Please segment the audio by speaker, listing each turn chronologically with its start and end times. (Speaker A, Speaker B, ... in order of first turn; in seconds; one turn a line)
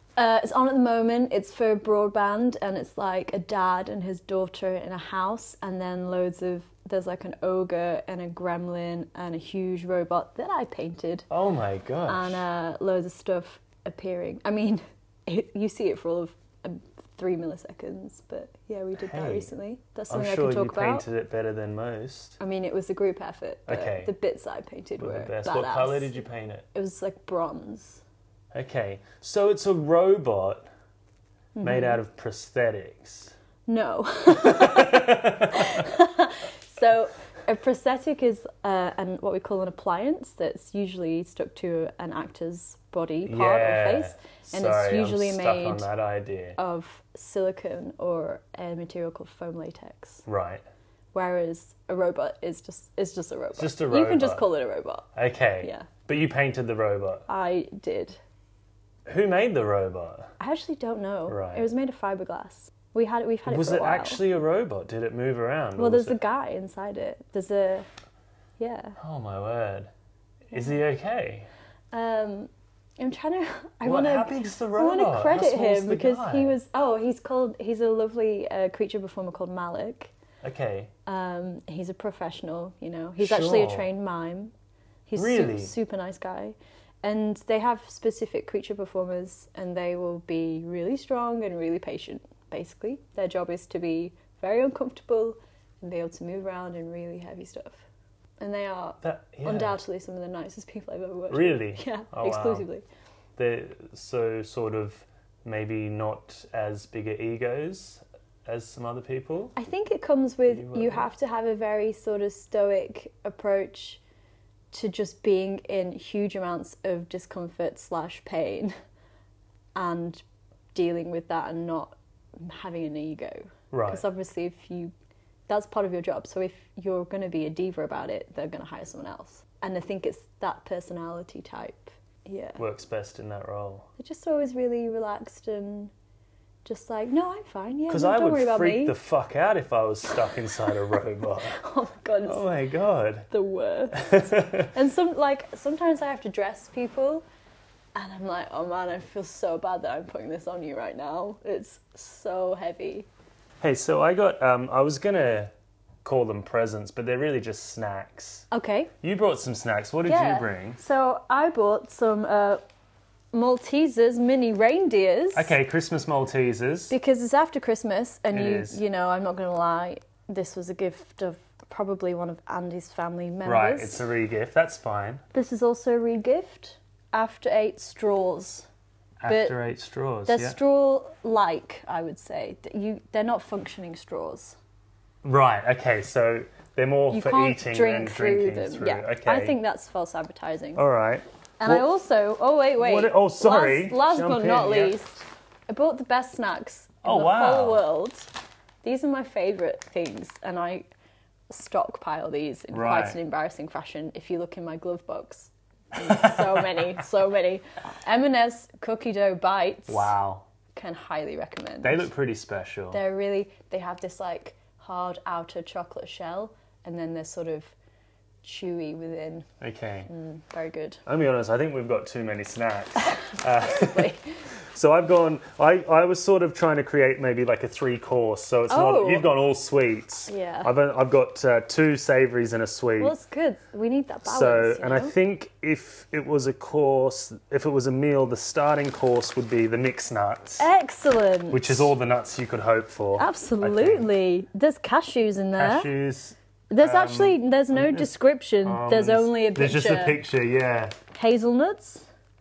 Speaker A: 0.2-11.3
Speaker B: 11.3-12.4
Speaker A: 12.1-21.0
Speaker B: 19.0-19.5
Speaker B: 20.1-22.4
Speaker A: 22.4-26.1
Speaker B: 23.7-24.1
Speaker B: 25.0-26.6
Speaker A: 26.7-28.0
Speaker B: 28.5-30.7
Speaker A: 31.5-32.0
Speaker B: 31.6-33.3
Speaker A: 33.7-45.9
Speaker B: 34.3-35.8
Speaker B: 43.2-46.6
Speaker A: 46.6-50.2
Speaker B: 50.2-50.6
Speaker A: 51.1-55.1
Speaker B: 53.5-54.5
Speaker B: 55.1-57.2
Speaker A: 55.6-55.9
Speaker A: 57.3-58.2
Speaker B: 59.1-60.3
Speaker A: 60.4-64.2
Speaker B: 61.3-61.7
Speaker B: 63.5-66.2
Speaker A: 65.8-67.9
Speaker A: 68.6-69.0
Speaker B: 69.0-69.9
Speaker B: 70.5-71.5
Speaker A: 71.9-80.1
Speaker B: 73.8-76.5
Speaker B: 80.4-80.9
Speaker A: 81.0-84.5
Speaker B: 83.2-83.9
Speaker A: 85.1-97.8
Speaker B: 85.1-85.7
Speaker A: 98.4-102.8
Speaker B: 99.0-99.7
Speaker B: 101.3-102.6
Speaker B: 103.4-109.5
Speaker A: 109.5-114.0
Speaker B: 110.5-111.1
Speaker A: 114.7-118.7
Speaker A: 119.7-120.2
Speaker A: 120.7-124.9
Speaker B: 123.7-124.0
Speaker A: 125.5-132.6
Speaker B: 132.6-133.9
Speaker A: 134.0-135.9
Speaker A: 136.6-138.9
Speaker B: 137.9-141.6
Speaker A: 141.5-142.4
Speaker B: 142.2-143.3
Speaker A: 143.3-147.2
Speaker B: 143.9-144.7
Speaker A: 147.9-153.1
Speaker B: 153.6-155.5
Speaker B: 156.0-158.5
Speaker A: 158.5-158.9
Speaker B: 159.0-160.8
Speaker A: 160.1-162.6
Speaker A: 163.3-165.5
Speaker B: 165.3-166.9
Speaker A: 166.9-174.0
Speaker B: 168.3-168.8
Speaker B: 173.4-175.2
Speaker A: 175.3-178.7
Speaker B: 179.2-180.6
Speaker A: 179.2-179.6
Speaker A: 180.3-184.6
Speaker B: 185.2-189.6
Speaker A: 187.1-190.8
Speaker B: 190.8-191.8
Speaker A: 191.6-198.3
Speaker B: 192.8-195.0
Speaker B: 197.0-197.8
Speaker A: 198.8-200.9
Speaker A: 201.5-210.1
Speaker B: 202.7-203.2
Speaker B: 209.9-210.4
Speaker A: 210.7-212.1
Speaker B: 211.8-213.0
Speaker A: 212.9-217.7
Speaker A: 218.4-219.5
Speaker B: 219.6-220.1
Speaker A: 220.1-221.0
Speaker B: 221.1-224.1
Speaker A: 223.1-224.3
Speaker B: 224.7-233.1
Speaker A: 228.7-229.3
Speaker A: 230.3-230.7
Speaker A: 233.0-235.1
Speaker B: 234.2-240.7
Speaker A: 240.6-241.9
Speaker B: 241.5-244.1
Speaker A: 243.2-245.9
Speaker B: 245.6-248.1
Speaker A: 246.7-250.2
Speaker B: 248.6-250.9
Speaker A: 251.1-252.1